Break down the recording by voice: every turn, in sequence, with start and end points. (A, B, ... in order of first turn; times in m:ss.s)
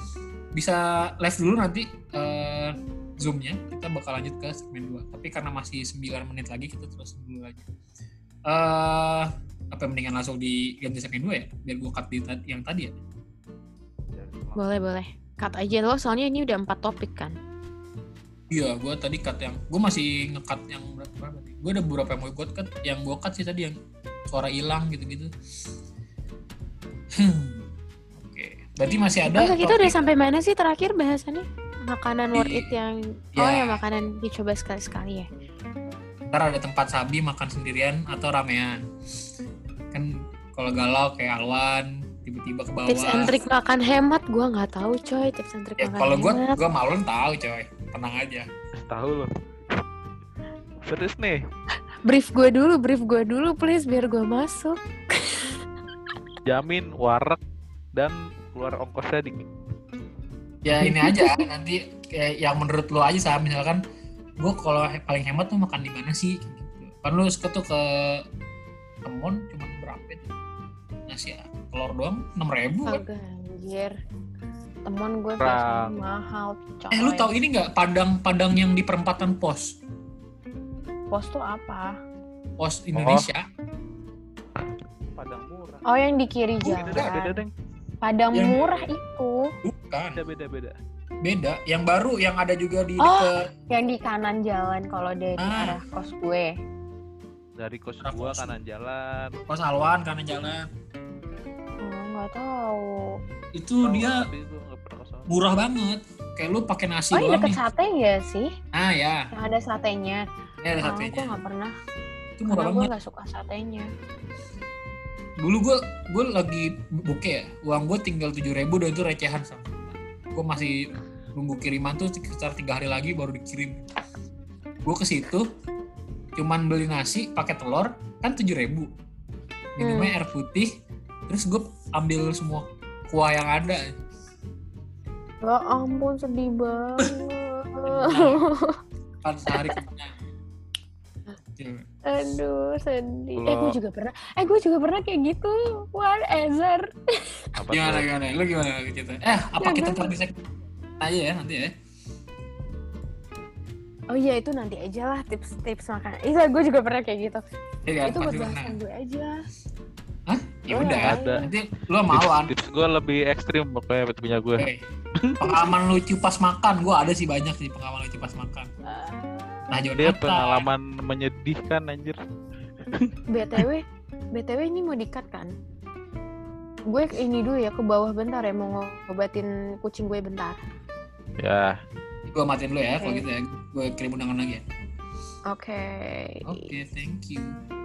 0:00.5-0:07.7 A
0:08.5-0:12.9 A
0:14.1-0:14.6 B
0:14.6-0:17.4 C
0:18.5-0:23.8 A
0:24.3-0:25.3 A
0:27.2-0:27.6 A
0:28.2-0:30.0 A
0:29.3-0:35.3 C
0:32.3-0:32.7 A
0:33.4-0:33.8 A
0:36.3-0:38.8 A
0:39.9-0:43.3 A
0:42.9-0:46.6 C
0:45.8-0:48.5 A
0:48.8-0:49.3 B
0:50.9-0:51.4 B
0:52.0-0:55.6 C
0:56.5-0:57.4 B
0:58.0-0:59.4 B
1:00.6-1:03.8 A
1:00.8-1:01.5 C
1:04.4-1:08.2 A
1:09.0-1:10.3 A
1:11.1-1:13.0 A
1:12.9-1:14.0 C
1:14.9-1:17.3 C
1:15.4-1:16.1 B
1:16.9-1:19.8 A
1:21.1-1:22.0 C
1:22.6-1:23.5 A
1:22.9-1:23.3 B
1:25.1-1:25.8 B
1:25.8-1:27.4 C
1:26.6-1:27.5 B
1:26.8-1:27.2 A
1:28.0-1:29.5 C
1:28.3-1:28.7 A
1:29.6-1:30.2 A
1:30.2-1:30.8 B
1:31.2-1:33.5 A
1:33.0-1:36.5 C
1:35.4-1:35.8 A
1:37.6-1:39.4 B
1:38.0-1:38.6 A
1:39.5-1:40.7 A
1:41.8-1:43.2 C
1:43.6-1:44.2 A
1:43.8-1:45.4 B
1:45.3-1:47.6 A
1:47.1-1:48.5 C
1:48.7-1:49.3 A
1:49.3-1:50.2 C
1:50.6-1:51.4 A
1:50.8-1:51.7 C
1:52.4-1:52.9 A
1:52.5-1:53.9 C
1:55.4-2:03.8 A
2:04.8-2:05.5 A
2:06.4-2:08.9 A
2:09.8-2:10.7 A
2:09.8-2:10.1 C
2:11.3-2:13.9 A
2:15.4-2:18.8 C
2:17.9-2:18.4 A
2:19.2-2:20.2 A
2:21.6-2:21.8 A
2:22.1-2:27.4 C
2:23.4-2:23.8 B
2:27.6-2:28.1 B
2:27.7-2:30.4 A
2:29.6-2:30.1 C
2:31.0-2:31.7 A
2:34.1-2:37.4 C
2:37.9-2:38.8 A
2:38.0-2:39.4 C
2:40.3-2:42.5 A
2:40.7-2:41.5 C
2:40.8-2:41.5 B
2:42.1-2:45.7 B
2:45.4-2:48.7 A
2:48.9-2:49.8 C
2:49.7-2:50.7 A
2:50.0-2:52.2 B
2:52.9-2:53.7 B
2:53.3-2:55.5 C
2:56.9-3:00.6 C
3:01.4-3:01.8 B
3:02.3-3:04.7 A
3:02.9-3:03.2 C
3:05.5-3:06.7 C
3:06.4-3:07.6 A